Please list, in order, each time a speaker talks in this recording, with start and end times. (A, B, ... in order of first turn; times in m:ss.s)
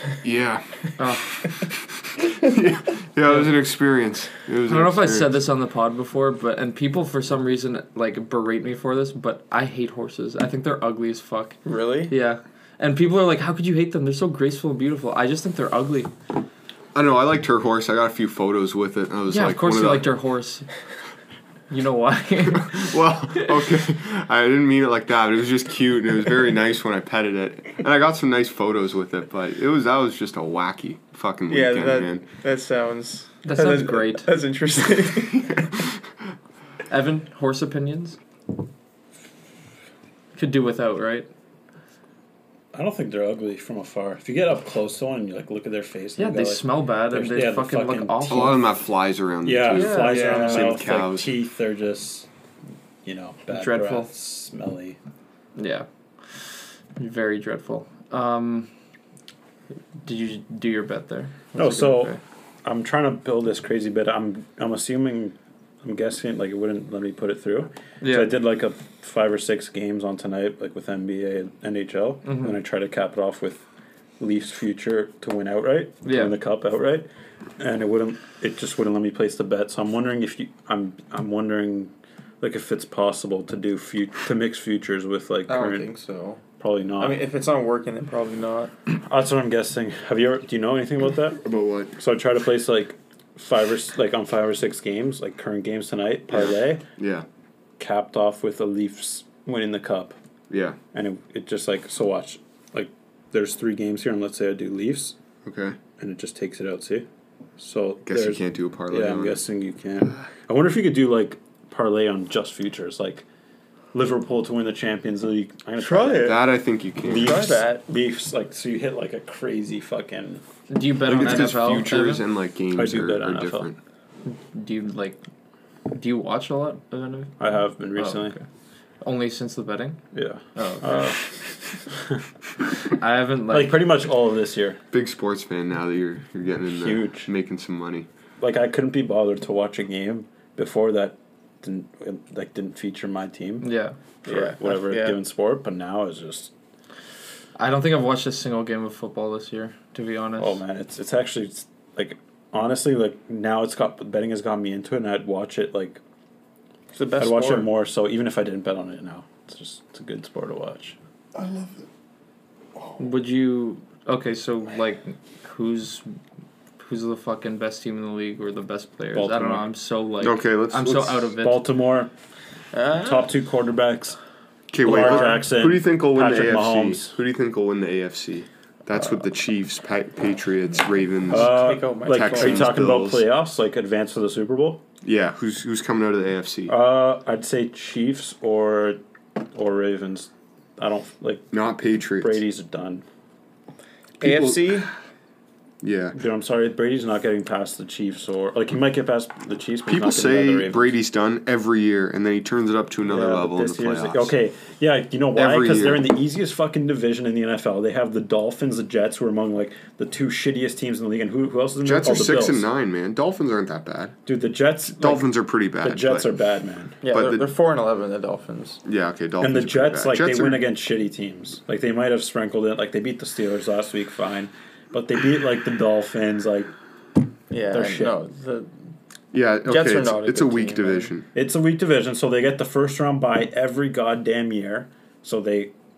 0:00.2-0:05.4 A
0:01.0-0:01.4 B
0:04.7-0:16.1 B
0:11.6-0:12.1 C
0:16.9-0:20.1 A
0:19.3-0:20.7 B
0:21.7-0:23.5 B
0:22.6-0:32.2 A
0:31.5-0:35.7 C
0:33.4-0:34.3 B
0:36.9-0:38.2 B
0:40.4-0:41.3 B
0:42.7-0:48.6 D
0:46.2-0:48.6 B
0:48.3-0:51.3 A
0:49.4-0:52.3 D
0:49.7-0:50.6 B
0:50.1-0:50.6 C
0:53.0-0:55.0 D
0:53.5-0:54.1 B
0:55.6-0:58.7 B
1:00.0-1:02.2 B
1:01.6-1:13.6 D
1:08.0-1:08.3 B
1:12.2-1:12.6 B
1:14.2-1:17.1 D
1:16.0-1:16.4 B
1:17.6-1:25.9 D
1:25.5-1:26.4 C
1:26.6-1:27.2 D
1:27.0-1:28.7 C
1:28.9-1:31.4 D
1:31.4-1:32.0 A
1:32.0-1:36.8 D
1:36.3-1:37.2 A
1:37.8-1:40.2 D
1:40.5-1:40.8 A
1:40.9-1:45.2 D
1:45.4-1:45.8 A
1:46.0-1:47.1 D
1:47.6-1:53.2 D
1:48.0-1:49.4 A
1:53.9-1:56.4 D
1:55.8-1:56.4 C
1:56.2-1:57.4 A
1:57.0-2:00.4 D
1:57.1-1:57.8 C
2:00.7-2:02.2 B
2:01.0-2:03.8 A
2:01.1-2:01.6 D
2:02.8-2:03.7 D
2:04.2-2:05.2 B
2:05.9-2:08.4 B
2:07.4-2:08.4 D
2:09.0-2:10.0 B
2:10.1-2:11.2 D
2:10.5-2:11.1 B
2:12.9-2:13.8 B
2:13.5-2:14.8 D
2:14.9-2:18.1 A
2:16.7-2:17.3 D
2:18.4-2:23.7 D
2:23.6-2:24.0 B
2:24.2-2:26.5 D
2:24.2-2:25.2 C
2:27.6-2:30.6 B
2:30.4-2:36.0 D
2:36.9-2:37.7 C
2:37.2-2:41.0 D
2:41.4-2:41.7 C
2:43.0-2:46.1 B
2:46.8-2:51.6 B
2:49.1-2:49.6 D
2:50.2-2:51.3 A
2:51.4-2:52.1 D
2:52.7-2:53.3 C
2:53.0-2:54.2 D
2:54.7-3:03.2 A
2:54.8-2:57.2 D
2:54.9-2:55.4 C
3:01.3-3:02.8 C
3:01.3-3:04.8 D
3:05.0-3:06.8 A
3:06.7-3:11.5 D
3:11.5-3:12.4 A
3:12.2-3:13.0 D
3:14.2-3:14.8 A
3:14.2-3:14.9 C
3:15.8-3:16.1 A
3:16.1-3:21.0 D
3:19.9-3:24.3 A
3:23.1-3:32.6 D
3:25.4-3:26.0 A
3:31.8-3:34.2 A
3:34.2-3:35.3 D
3:34.9-3:36.3 A
3:35.8-3:37.0 D
3:37.0-3:38.8 C
3:37.1-3:37.5 A
3:38.8-3:40.6 A
3:39.4-3:46.7 D
3:47.5-3:48.7 C
3:47.7-3:48.1 D
3:49.3-3:51.3 A
3:49.6-3:51.1 C
3:51.3-3:55.7 D